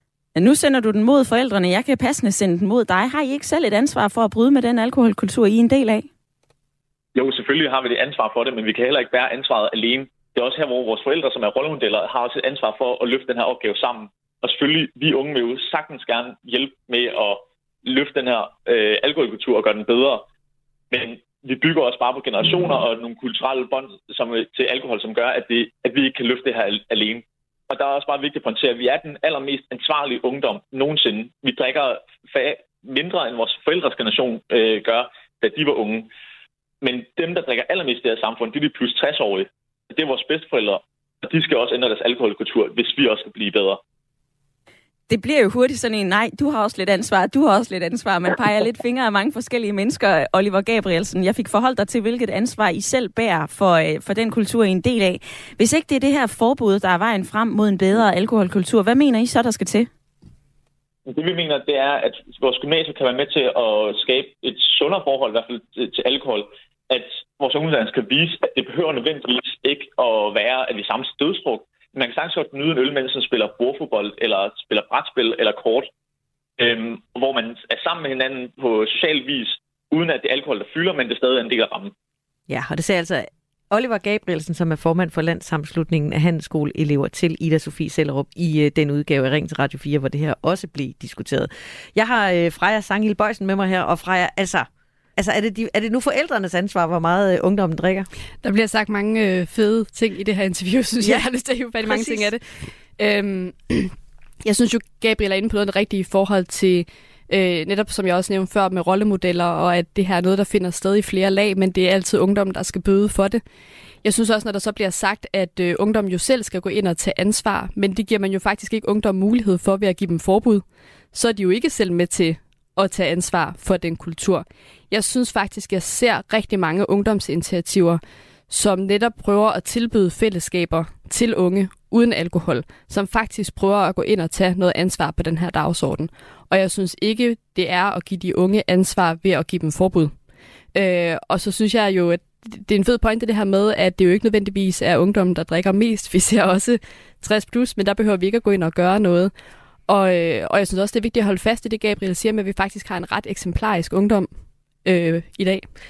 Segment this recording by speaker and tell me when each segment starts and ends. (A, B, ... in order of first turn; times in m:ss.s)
0:00.4-0:06.1 A
0:07.2-0:20.3 B
0:20.9-0:36.1 B
0:36.8-0:43.8 B
0:45.1-0:59.9 A
1:01.1-1:15.9 B
1:16.6-1:21.9 B
1:22.5-1:38.1 C
1:38.4-1:42.4 D
1:41.0-1:41.3 C
1:41.8-1:42.3 C
1:43.0-1:43.9 D
1:44.4-1:53.4 D
1:54.0-2:20.1 D
2:20.8-2:29.3 D
2:29.9-2:34.3 D
2:34.8-2:35.6 D